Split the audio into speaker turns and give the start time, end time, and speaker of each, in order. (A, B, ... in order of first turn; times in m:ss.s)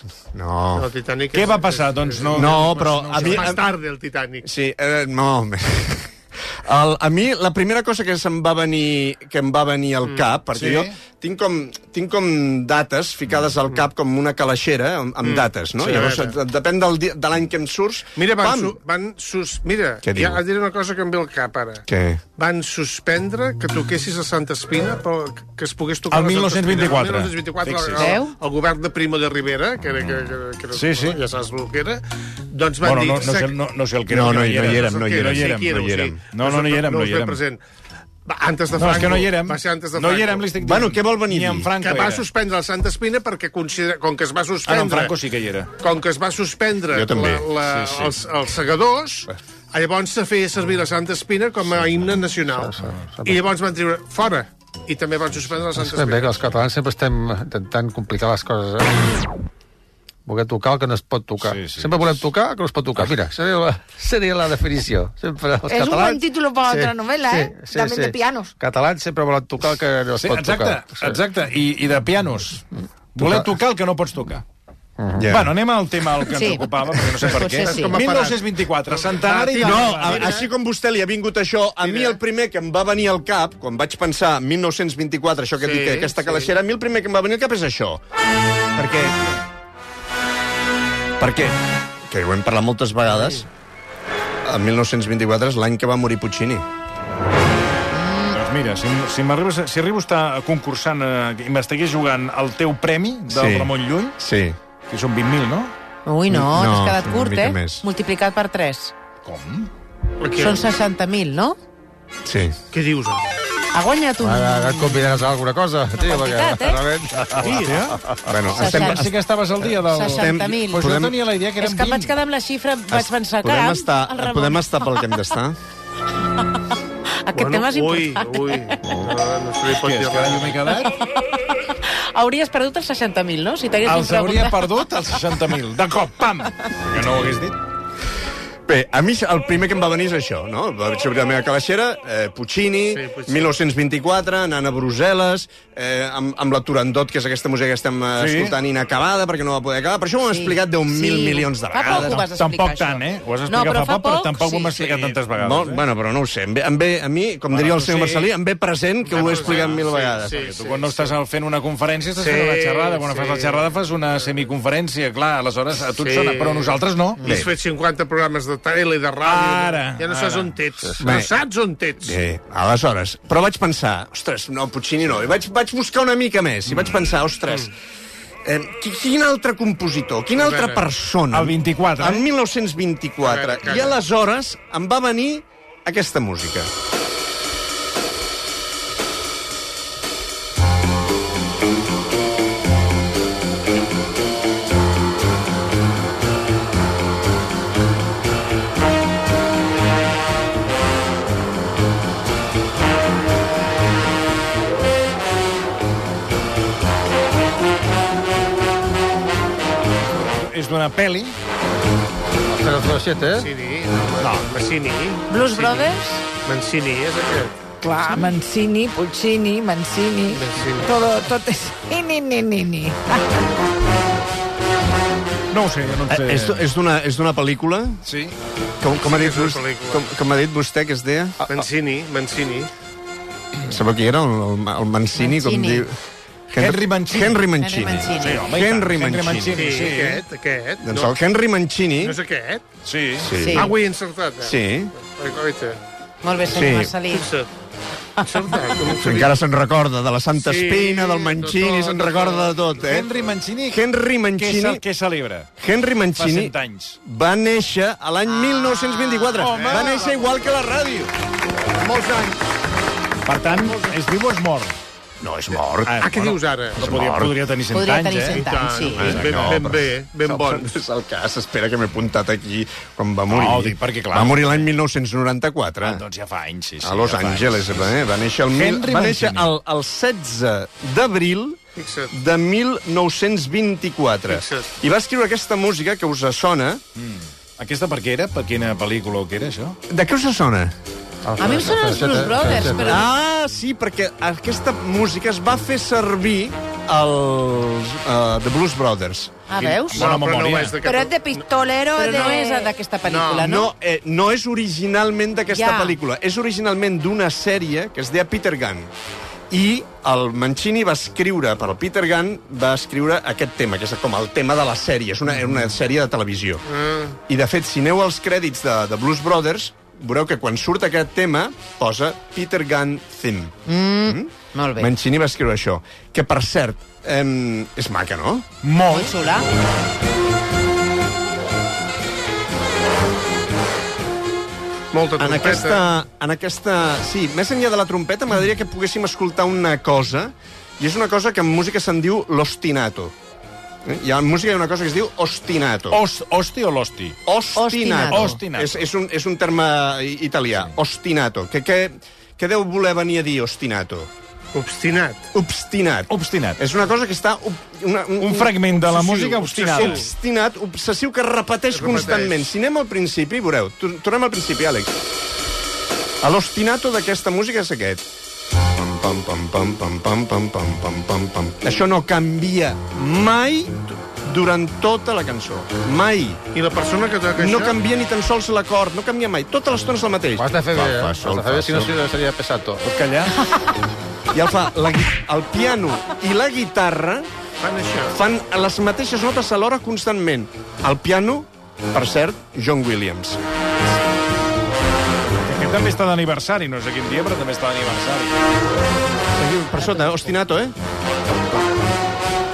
0:00.3-0:00.9 A
0:00.8-0:04.5 B
0:01.3-0:03.6 C
0:02.3-0:03.6 A
0:04.4-0:06.1 A
0:06.6-0:18.8 A
0:10.6-0:10.9 C
0:15.2-0:16.4 B
0:18.2-0:21.8 B
0:20.0-0:20.4 A
0:21.9-0:22.2 A
0:22.4-0:33.5 B
0:26.1-0:28.2 C
0:28.0-0:28.4 D
0:30.7-0:31.2 C
0:32.8-0:37.4 C
0:34.1-0:36.2 A
0:34.6-0:37.6 B
0:38.3-0:40.5 B
0:38.8-0:42.3 C
0:40.6-0:41.7 A
0:41.8-0:45.1 B
0:44.7-0:45.7 C
0:45.8-0:56.4 B
0:46.9-0:47.5 A
0:47.6-0:48.2 C
0:52.5-0:53.4 E
0:55.8-0:59.2 E
1:00.3-1:11.2 E
1:01.4-1:02.2 C
1:05.7-1:08.6 F
1:10.2-1:14.4 C
1:15.0-1:15.3 E
1:15.2-1:15.5 A
1:15.3-1:20.4 C
1:16.3-1:16.6 D
1:17.2-1:18.0 D
1:17.4-1:20.5 B
1:19.6-1:28.0 A
1:21.8-1:22.2 B
1:25.6-1:26.5 B
1:28.8-1:29.4 A
1:31.2-1:31.6 A
1:32.1-1:33.5 A
1:33.1-1:33.4 B
1:34.4-1:36.6 A
1:37.9-1:38.4 D
1:38.3-1:44.2 C
1:43.3-1:44.6 A
1:44.9-1:45.7 C
1:46.1-1:48.9 D
1:46.3-1:47.8 A
1:49.2-1:49.7 C
1:50.2-1:50.6 B
1:50.4-1:51.6 D
1:52.2-1:52.6 A
1:52.7-1:53.2 B
1:53.7-1:55.0 D
1:54.2-1:58.3 E
1:56.0-1:56.8 D
1:57.4-1:58.0 C
1:57.4-1:57.7 B
1:58.3-1:59.2 A
1:58.5-1:59.0 D
1:58.6-2:02.1 C
1:59.9-2:01.0 D
2:00.0-2:01.2 A
2:01.6-2:05.0 D
2:02.9-2:05.6 A
2:07.3-2:08.8 D
2:07.4-2:10.5 B
2:08.8-2:09.1 A
2:09.7-2:10.9 C
2:10.8-2:14.7 D
2:13.8-2:17.6 C
2:18.7-2:32.2 A
2:22.9-2:23.5 B
2:28.2-2:28.6 C
2:30.2-2:34.8 D
2:31.8-2:35.8 C
2:34.8-2:40.5 A
2:37.5-2:38.3 C
2:39.1-2:41.1 B
2:39.1-2:47.2 C
2:42.2-2:43.7 B
2:46.0-2:52.2 B
2:47.2-2:47.5 A
2:49.2-2:50.5 C
2:51.0-2:51.2 E
2:51.0-2:51.3 A
2:52.0-2:57.7 A
2:58.4-3:06.7 A
3:00.3-3:00.8 B
3:01.3-3:02.3 C
3:03.2-3:04.0 B
3:30.2-3:31.4 C
3:32.5-3:33.5 E
3:33.3-3:35.9 B
3:34.2-3:34.5 C
3:35.3-3:36.2 D
3:36.4-3:37.6 B
3:37.8-3:43.2 F
3:40.3-3:40.9 B
3:45.5-3:46.7 C
3:46.1-3:48.0 A
3:48.0-3:48.4 C
3:48.8-3:51.6 A
3:49.0-3:50.1 B
3:51.5-3:52.7 B
3:53.6-3:56.0 A
3:55.2-3:55.9 D
3:56.5-3:59.7 A
3:56.6-4:00.2 C
3:57.6-3:58.4 D
3:59.5-4:01.1 B
4:00.8-4:02.2 A
4:02.0-4:02.6 B
4:02.8-4:03.3 C
4:03.2-4:03.7 A
4:03.4-4:03.7 D
4:03.5-4:05.8 B
4:04.4-4:04.9 A
4:06.2-4:07.3 D
4:06.5-4:06.9 A
4:07.1-4:07.5 B
4:08.2-4:08.5 D
4:08.2-4:09.4 B
4:09.0-4:13.1 A
4:10.4-4:12.6 B
4:12.8-4:13.8 C
4:13.7-4:14.8 A
4:14.4-4:15.5 C
4:15.6-4:21.1 A
4:16.2-4:17.0 C
4:19.4-4:20.0 C
4:19.4-4:20.2 B
4:21.8-4:22.4 B
4:22.1-4:22.4 A
4:23.3-4:24.8 C
4:25.2-4:26.0 A
4:25.9-4:28.4 C
4:26.0-4:26.8 B
4:26.8-4:27.4 A
4:27.7-4:29.0 D
4:28.3-4:30.7 B
4:29.0-4:36.0 A
4:29.0-4:29.6 C
4:33.3-4:34.7 C
4:35.8-4:37.8 C
4:36.8-4:41.6 A
4:38.5-4:39.5 C
4:41.8-4:42.1 B
4:42.1-4:46.8 A
4:44.3-4:44.7 B
4:47.0-4:49.8 C
4:49.9-4:50.7 A
4:51.2-4:53.0 E
4:51.4-4:53.1 D
4:52.8-4:59.4 A
4:59.5-5:00.1 D
4:59.5-5:00.8 C
4:59.9-5:01.5 B
5:00.8-5:02.7 F
5:01.9-5:03.7 D
5:03.0-5:03.5 B
5:03.4-5:08.9 A
5:05.5-5:06.0 D
5:09.5-5:16.7 A
5:16.7-5:17.2 B
5:17.3-5:28.5 A
5:23.7-5:24.9 D
5:28.6-5:29.4 C
5:28.8-5:29.5 D
5:34.9-5:35.8 B
5:35.2-5:43.2 A
5:43.8-5:46.0 A
5:45.9-5:47.2 C
5:47.3-5:54.1 A
5:47.6-5:48.4 D
5:48.1-5:48.9 C
5:54.5-5:55.3 B
5:55.3-5:58.6 A
5:56.1-5:56.6 C
5:58.2-6:00.0 C
5:58.8-6:00.1 B
5:59.6-6:04.9 A
6:01.7-6:02.5 B
6:06.2-6:08.1 A
6:08.6-6:16.4 A
6:16.5-6:17.8 B
6:17.3-6:22.0 A
6:20.4-6:22.8 E
6:22.8-6:23.5 C
6:24.3-6:27.3 A
6:27.6-6:28.2 B
6:28.1-6:33.4 A
6:35.4-6:38.4 C
6:39.3-6:40.8 A
6:41.3-6:41.7 A